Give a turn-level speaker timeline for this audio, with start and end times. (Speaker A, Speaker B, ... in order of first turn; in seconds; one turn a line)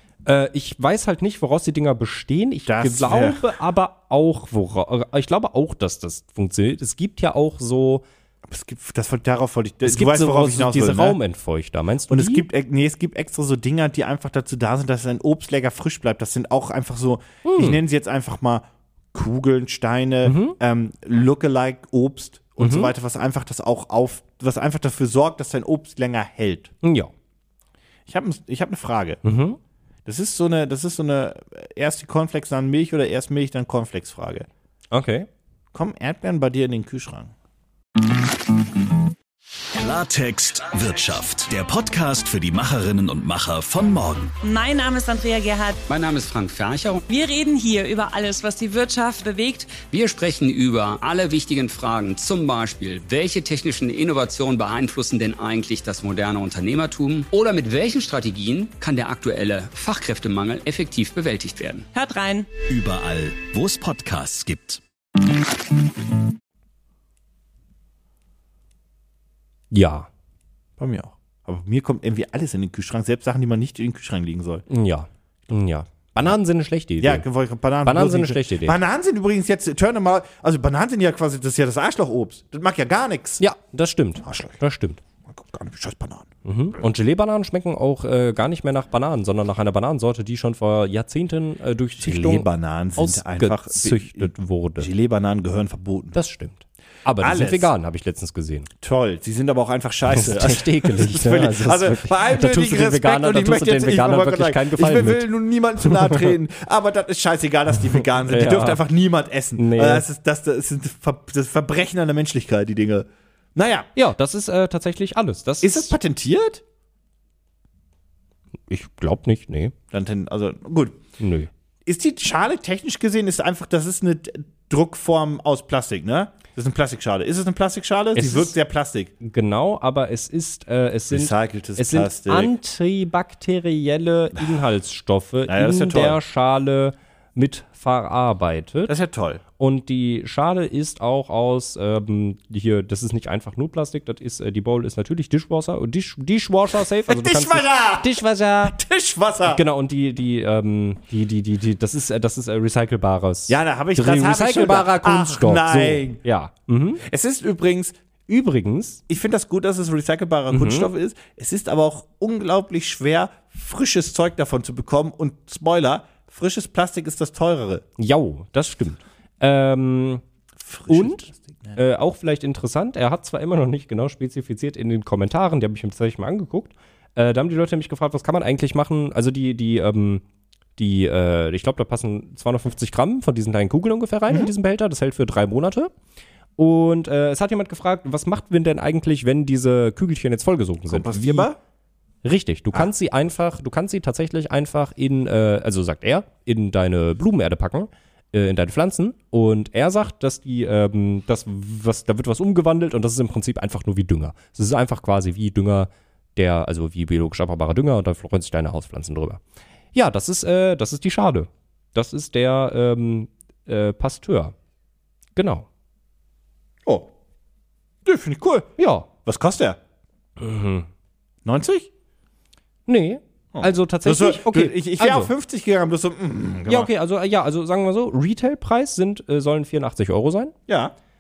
Speaker A: 0.2-8.0
Speaker B: 2.6-3.4
Speaker B: 8.5-11.2
Speaker A: 9.8-12.4
Speaker B: 12.1-26.7
Speaker A: 17.4-17.8
Speaker A: 20.2-20.6
Speaker A: 22.6-22.9
Speaker A: 26.8-27.1
Speaker B: 28.1-29.2
Speaker A: 29.2-29.6
Speaker B: 30.1-34.5
Speaker A: 34.9-35.3
Speaker B: 35.7-37.3
Speaker C: 39.7-44.4
Speaker D: 44.4-45.8
Speaker E: 45.9-47.0
Speaker D: 47.1-49.8
Speaker E: 49.8-61.9
Speaker D: 61.9-62.5
Speaker C: 62.6-64.8
Speaker A: 69.7-70.1
Speaker B: 70.8-74.6
Speaker A: 74.7-77.2
Speaker B: 77.0-83.4
Speaker A: 77.8-78.8
Speaker A: 83.4-85.0
Speaker B: 84.2-84.6
Speaker B: 85.3-86.3
Speaker A: 86.4-94.9
Speaker B: 92.0-96.2
Speaker A: 96.1-98.7
Speaker B: 97.2-97.7
Speaker B: 98.8-113.9
Speaker A: 100.1-105.3
Speaker A: 105.8-106.3
Speaker A: 108.2-108.8
Speaker A: 109.6-110.0
Speaker A: 113.9-115.9
Speaker B: 115.6-116.6
Speaker A: 118.7-119.7
Speaker B: 119.9-121.0
Speaker A: 121.2-121.5
Speaker B: 121.8-129.1
Speaker A: 128.1-128.5
Speaker A: 129.2-138.9
Speaker B: 131.1-132.5
Speaker B: 135.5-136.2
Speaker B: 138.9-139.4
Speaker A: 139.6-148.8
Speaker B: 147.0-149.6
Speaker A: 149.4-157.0
Speaker B: 153.5-156.2
Speaker B: 157.0-157.9
Speaker A: 158.3-159.0
Speaker B: 159.1-167.8
Speaker A: 160.5-160.9
Speaker A: 168.0-170.2
Speaker B: 170.6-171.8
Speaker A: 170.9-180.2
Speaker A: 180.8-185.9
Speaker A: 186.6-191.5
Speaker B: 190.9-191.6
Speaker A: 192.2-209.4
Speaker A: 209.9-214.5
Speaker A: 215.3-215.7
Speaker B: 218.0-218.7
Speaker A: 218.8-219.1
Speaker B: 219.2-219.8
Speaker A: 220.4-220.9
Speaker B: 221.4-221.9
Speaker A: 222.8-225.3
Speaker B: 223.5-226.9
Speaker A: 226.7-230.5
Speaker B: 230.7-230.9